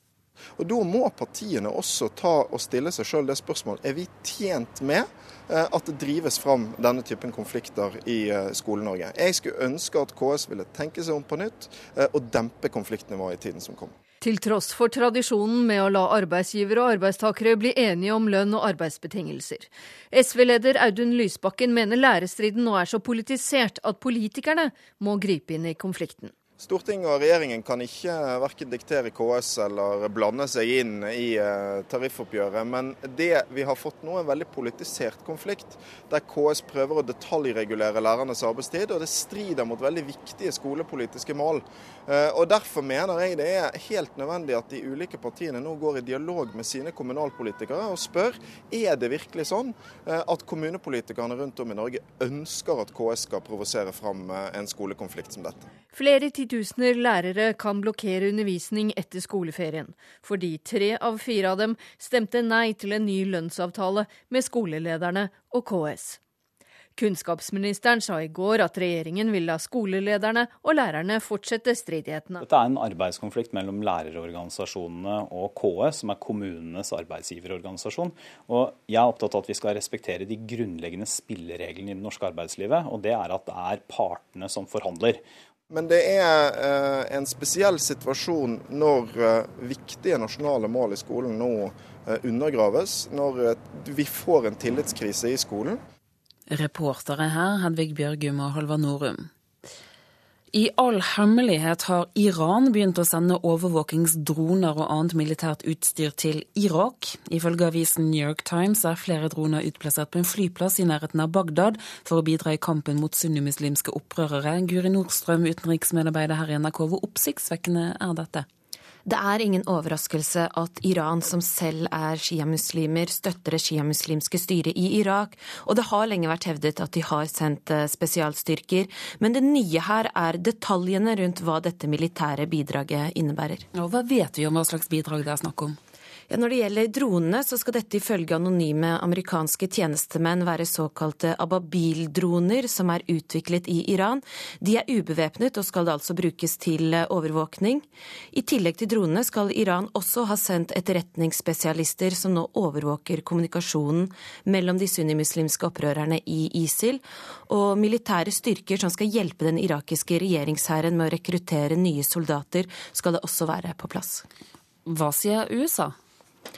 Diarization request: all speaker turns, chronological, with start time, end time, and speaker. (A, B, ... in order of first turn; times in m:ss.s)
0:00.6-0:13.9 A
0:14.2-0:26.3 B
0:26.6-0:55.7 A
0:55.9-1:06.2 B
1:07.0-1:12.4 B
1:12.4-1:25.2 C
1:25.7-1:35.8 A
1:36.5-1:39.3 D
1:40.5-1:58.4 D
1:59.0-2:13.6 E
2:13.7-2:15.8 D
2:16.3-2:44.2 E
2:44.8-2:46.0 D